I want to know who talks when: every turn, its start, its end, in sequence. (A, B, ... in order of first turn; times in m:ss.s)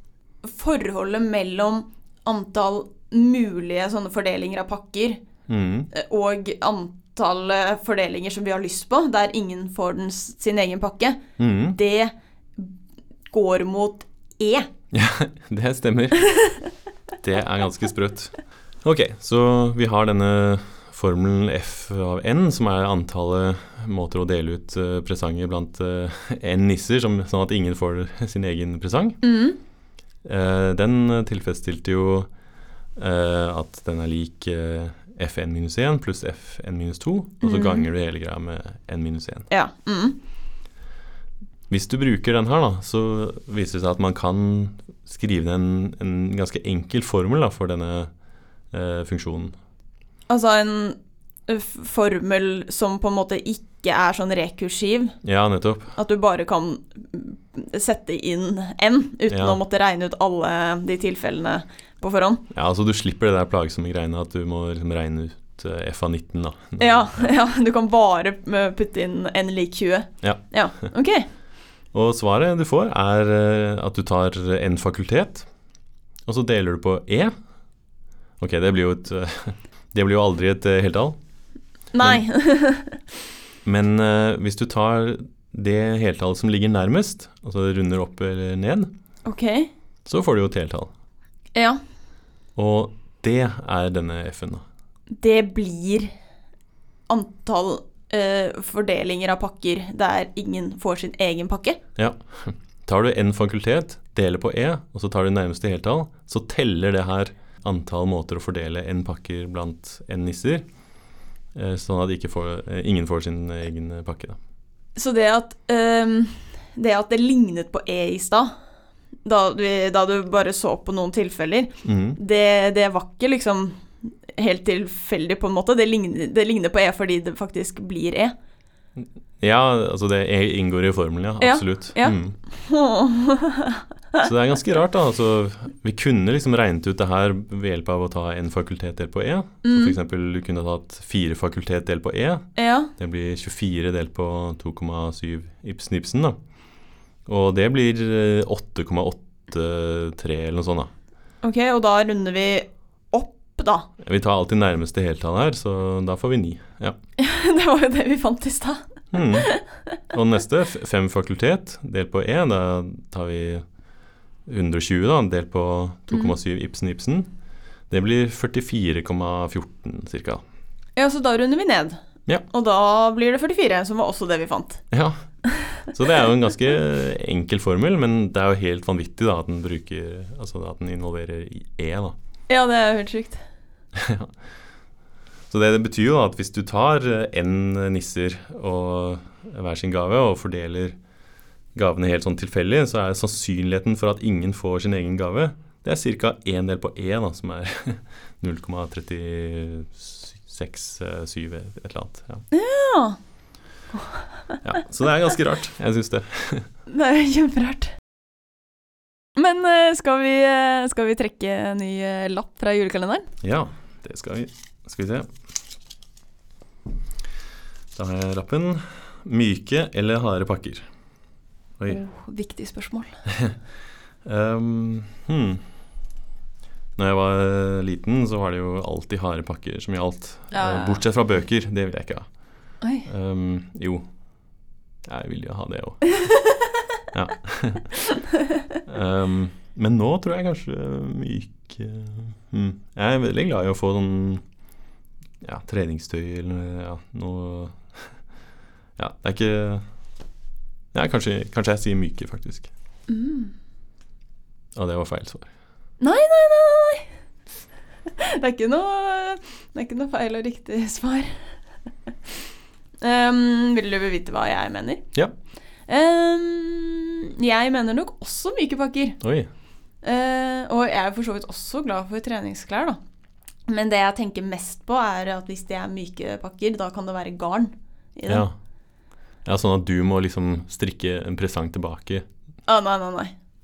0:00.4-0:05.2 A
0:05.5-0:05.9 B
0:05.9-0:11.2 A
0:11.4-0:11.8 B
0:11.7-0:12.7 A
0:13.3-0:14.7 A
0:14.9-0:16.2 B
0:16.3-0:16.7 A
0:17.2-0:29.2 B
0:29.2-0:29.6 A
0:30.2-0:32.3 B
0:33.0-0:39.5 B
0:37.4-0:37.9 A
0:39.5-0:40.2 A
0:41.7-0:48.1 B
0:48.7-0:49.6 B
0:50.3-0:51.0 A
0:51.5-0:55.2 A
0:55.2-0:56.0 B
0:56.0-1:02.4 A
0:59.3-0:59.6 B
1:02.5-1:07.3 B
1:06.8-1:11.3 A
1:11.9-1:15.5 B
1:16.3-1:17.3 B
1:18.4-1:21.2 B
1:21.9-1:23.0 A
1:23.6-1:28.9 B
1:29.2-1:29.7 A
1:30.0-1:30.9 B
1:31.5-1:31.8 A
1:32.6-1:34.6 B
1:35.2-1:36.1 A
1:37.1-1:41.8 A
1:42.0-1:50.6 B
1:51.5-1:54.4 B
1:55.0-1:58.5 A
1:59.2-2:08.3 A
2:01.8-2:02.2 B
2:09.0-2:12.4 B
2:11.4-2:14.3 A
2:14.2-2:26.4 B
2:19.6-2:19.9 A
2:22.6-2:22.9 A
2:27.2-2:30.9 B
2:31.4-2:33.9 A
2:34.0-2:37.0 B
2:37.2-2:39.8 A
2:39.1-2:39.5 B
2:40.1-2:43.6 B
2:44.4-2:47.3 B
2:47.9-2:50.4 B
2:51.0-2:54.8 A
2:54.9-2:55.2 B
2:55.4-2:55.9 A
2:55.8-3:02.1 B
3:02.5-3:03.4 A
3:03.9-3:04.3 B
3:05.5-3:11.0 B
3:11.7-3:22.4 B
3:22.5-3:23.2 A
3:23.9-3:24.6 A
3:24.6-3:26.7 B
3:26.9-3:27.9 A
3:29.4-3:33.3 A
3:33.4-3:35.3 B
3:37.9-3:40.9 B
3:41.8-3:42.0 B
3:41.9-3:43.2 A
3:44.2-3:45.6 B
3:47.0-3:52.3 B
3:50.5-3:51.0 A
3:52.8-3:53.1 A
3:53.0-3:54.0 B
3:55.0-3:56.3 B
3:57.1-3:57.9 B
3:58.8-4:04.4 B
4:05.4-4:08.2 B
4:09.0-4:09.8 B
4:10.9-4:12.7 B
4:13.1-4:13.5 A
4:14.7-4:15.5 B
4:16.0-4:17.1 A
4:18.2-4:21.6 A
4:23.0-4:25.0 A
4:25.9-4:29.2 A
4:29.2-4:29.5 B
4:30.0-4:33.0 A
4:33.7-4:38.4 A
4:38.3-4:38.5 B
4:39.4-4:42.2 B
4:42.6-4:43.3 A